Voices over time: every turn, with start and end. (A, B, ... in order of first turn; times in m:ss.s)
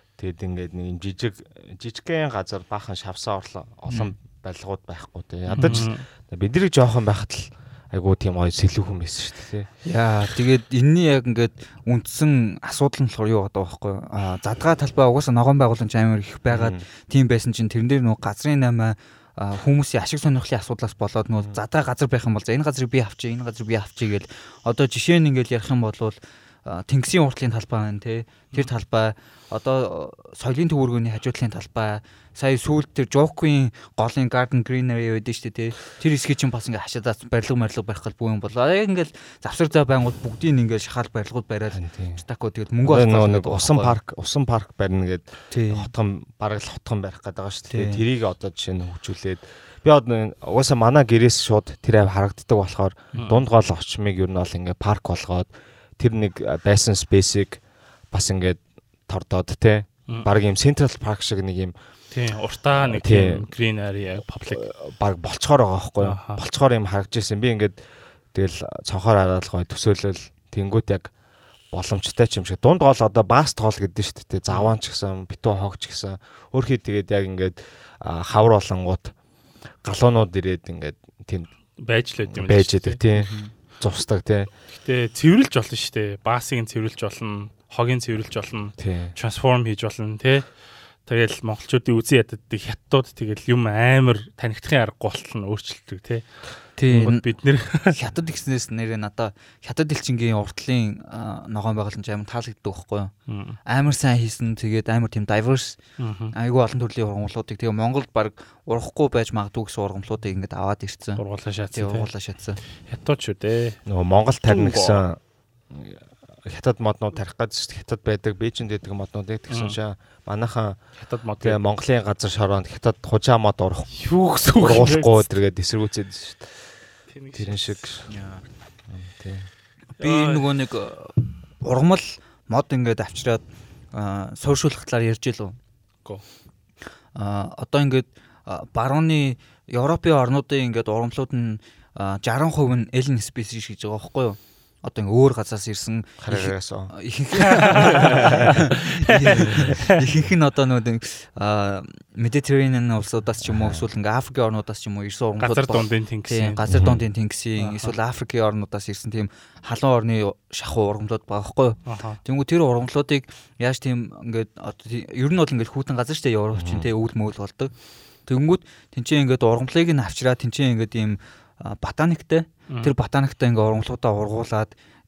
0:00.2-0:09.7 A
0:03.9-0:04.1 B
0:05.5-0:05.8 B
0:05.5-0:06.0 C
0:09.8-0:44.0 B
0:16.5-0:16.8 A
0:41.7-0:42.2 A
0:42.8-1:01.7 A
0:45.5-0:45.9 B
0:47.7-0:48.0 B
0:53.2-0:53.4 C
1:02.1-1:04.6 C
1:02.7-1:03.4 A
1:04.5-1:07.8 A
1:06.0-1:06.4 C
1:08.3-1:11.1 A
1:11.7-1:19.1 A
1:19.8-1:21.5 A
1:21.8-1:23.0 C
1:22.3-1:24.5 A
1:23.2-1:23.5 B
1:24.7-1:30.5 C
1:28.8-1:29.1 A
1:31.0-1:36.2 C
1:36.8-1:37.2 B
1:36.9-1:37.9 C
1:37.9-1:43.1 B
1:43.3-1:43.6 C
1:43.6-1:45.8 B
1:46.0-1:46.3 C
1:46.3-1:51.2 B
1:51.2-1:52.1 C
1:51.7-1:52.6 B
1:52.8-1:53.8 C
1:53.8-1:55.2 A
1:54.4-1:55.0 C
1:55.7-2:00.8 A
1:59.5-1:59.8 C
2:01.0-2:01.6 C
2:01.4-2:03.9 A
2:04.0-2:05.2 C
2:04.5-2:06.5 A
2:07.1-2:07.8 C
2:07.3-2:08.1 A
2:08.1-2:08.4 B
2:08.9-2:09.5 A
2:10.0-2:15.6 B
2:10.0-2:10.5 C
2:17.1-2:47.7 B
2:26.2-2:26.9 A
2:27.4-2:30.0 C
2:27.7-2:28.6 A
2:29.3-2:29.8 A
2:33.4-2:33.8 A
2:35.4-2:36.6 C
2:36.7-2:37.0 A
2:37.6-2:37.9 C
2:41.9-2:42.2 C
2:46.5-2:46.9 A
2:48.2-2:54.7 B